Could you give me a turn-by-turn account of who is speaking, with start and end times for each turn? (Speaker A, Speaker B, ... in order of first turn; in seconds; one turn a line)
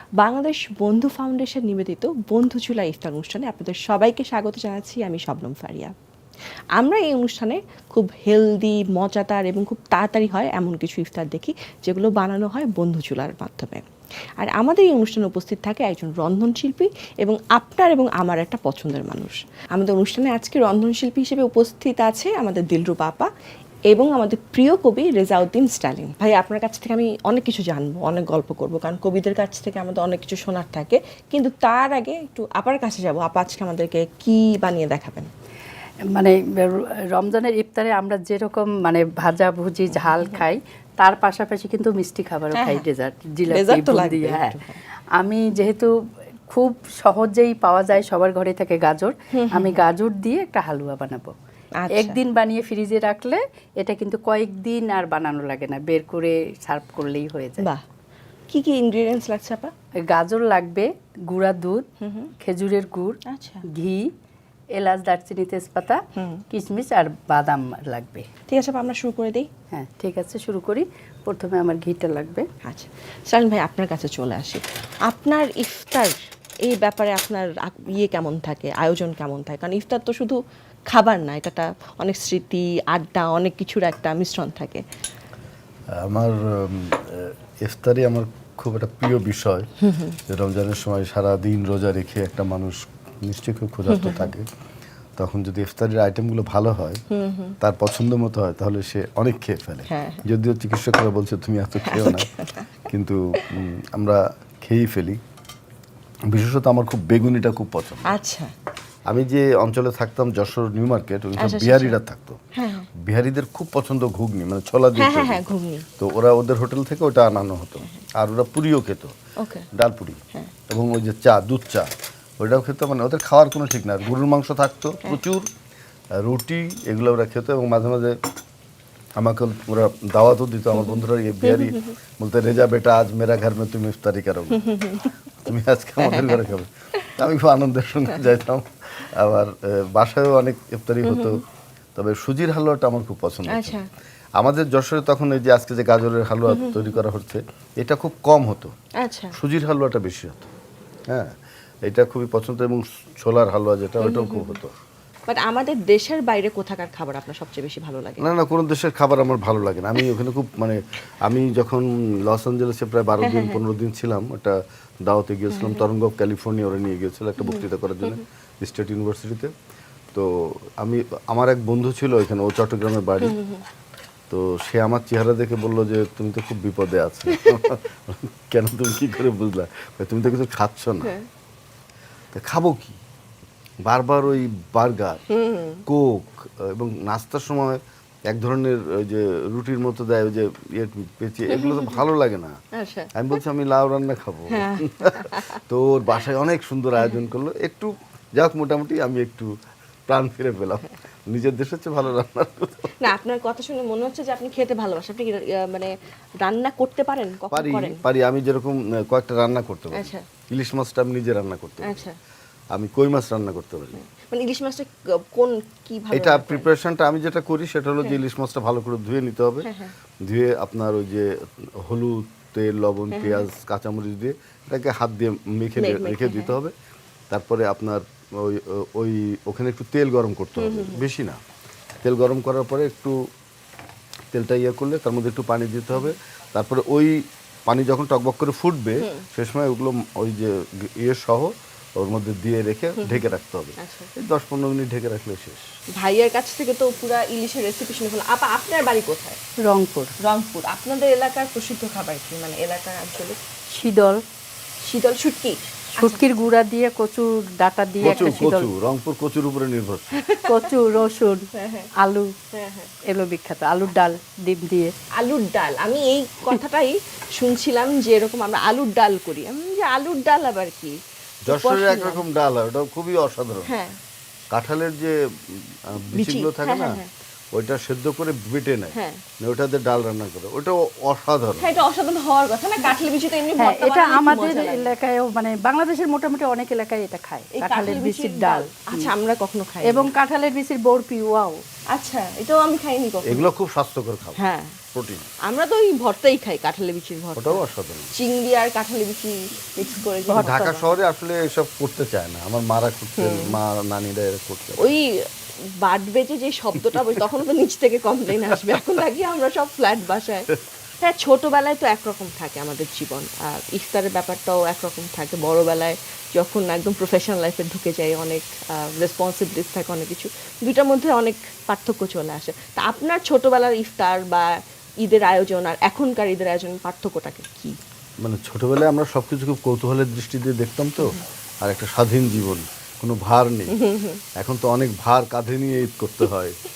Speaker A: 0.2-5.9
Speaker A: 6.8-13.8
Speaker A: 14.4-23.3
Speaker A: 23.9-35.3
Speaker B: 36.1-44.6
Speaker A: 39.9-40.4
Speaker A: 42.5-42.8
Speaker A: 43.5-44.8
Speaker B: 45.2-45.9
Speaker B: 46.5-51.3
Speaker A: 49.3-49.7
Speaker A: 51.7-52.2
Speaker B: 51.9-57.7
Speaker A: 58.5-59.7
Speaker B: 60.0-61.9
Speaker A: 62.0-62.3
Speaker B: 62.4-63.1
Speaker A: 63.2-63.6
Speaker B: 63.7-64.1
Speaker B: 64.7-68.3
Speaker A: 66.2-66.4
Speaker A: 68.5-69.5
Speaker B: 69.7-72.5
Speaker A: 72.6-80.4
Speaker A: 80.9-84.8
Speaker C: 86.0-89.7
Speaker A: 89.9-90.2
Speaker C: 90.3-94.5
Speaker A: 93.9-94.3
Speaker C: 95.2-97.0
Speaker A: 97.1-97.5
Speaker C: 97.6-102.3
Speaker A: 99.9-100.2
Speaker A: 101.8-102.7
Speaker C: 102.9-105.2
Speaker C: 106.3-108.1
Speaker A: 108.1-108.5
Speaker C: 109.1-112.4
Speaker A: 111.4-112.0
Speaker A: 112.5-112.9
Speaker C: 113.0-115.5
Speaker A: 114.9-115.9
Speaker C: 116.0-119.1
Speaker A: 119.4-119.7
Speaker C: 119.7-120.2
Speaker C: 120.7-125.5
Speaker C: 126.2-128.2
Speaker C: 129.2-134.6
Speaker A: 131.5-131.9
Speaker A: 134.6-135.1
Speaker C: 135.4-141.4
Speaker A: 136.0-136.5
Speaker A: 141.0-141.4
Speaker C: 141.9-143.8
Speaker A: 143.5-143.8
Speaker C: 144.4-148.7
Speaker A: 146.5-146.8
Speaker A: 149.0-149.3
Speaker C: 149.3-150.5
Speaker C: 151.1-151.3
Speaker C: 151.8-154.7
Speaker A: 154.0-154.6
Speaker A: 155.3-158.2
Speaker C: 158.2-169.5
Speaker A: 163.2-163.6
Speaker A: 165.5-165.8
Speaker A: 167.4-168.2
Speaker C: 170.1-173.3
Speaker A: 173.2-173.6
Speaker C: 174.3-181.1
Speaker C: 182.3-183.0
Speaker C: 183.8-185.2
Speaker A: 185.3-185.8
Speaker C: 185.9-192.5
Speaker A: 191.5-192.0
Speaker A: 192.7-193.3
Speaker C: 193.2-199.5
Speaker A: 194.5-195.6
Speaker C: 200.1-202.9
Speaker A: 203.0-208.0
Speaker C: 207.5-212.0
Speaker A: 209.9-210.2
Speaker A: 211.8-212.1
Speaker C: 212.7-213.9
Speaker A: 213.9-216.7
Speaker C: 216.1-219.7
Speaker A: 219.6-219.9
Speaker C: 220.2-226.7
Speaker A: 223.1-223.5
Speaker A: 225.8-226.6
Speaker C: 227.3-231.4
Speaker A: 230.6-231.1
Speaker C: 232.0-233.2
Speaker C: 234.3-245.6
Speaker A: 243.8-244.1
Speaker A: 245.9-249.4
Speaker B: 249.6-250.1
Speaker A: 250.2-253.4
Speaker B: 253.7-254.2
Speaker A: 254.8-256.4
Speaker B: 256.0-258.7
Speaker C: 258.0-260.1
Speaker A: 260.1-260.7
Speaker B: 260.5-262.3
Speaker A: 261.5-261.9
Speaker A: 262.5-262.9
Speaker B: 263.1-264.9
Speaker A: 265.1-270.9
Speaker C: 271.4-273.7
Speaker A: 271.5-272.2
Speaker A: 273.6-274.0
Speaker C: 274.5-277.0
Speaker A: 276.1-277.1
Speaker C: 277.5-281.6
Speaker A: 278.9-279.2
Speaker A: 281.6-284.9
Speaker B: 283.6-289.1
Speaker A: 287.5-290.1
Speaker B: 289.9-291.6
Speaker A: 291.9-293.5
Speaker C: 293.2-294.4
Speaker A: 294.4-294.8
Speaker C: 294.9-295.3
Speaker A: 295.4-300.9
Speaker C: 297.4-298.1
Speaker B: 300.3-300.8
Speaker C: 300.3-304.9
Speaker A: 303.2-303.6
Speaker A: 304.8-305.1
Speaker A: 305.8-310.5
Speaker A: 311.0-324.5
Speaker A: 325.0-327.8
Speaker C: 328.2-333.7
Speaker A: 333.7-334.2
Speaker C: 334.4-336.6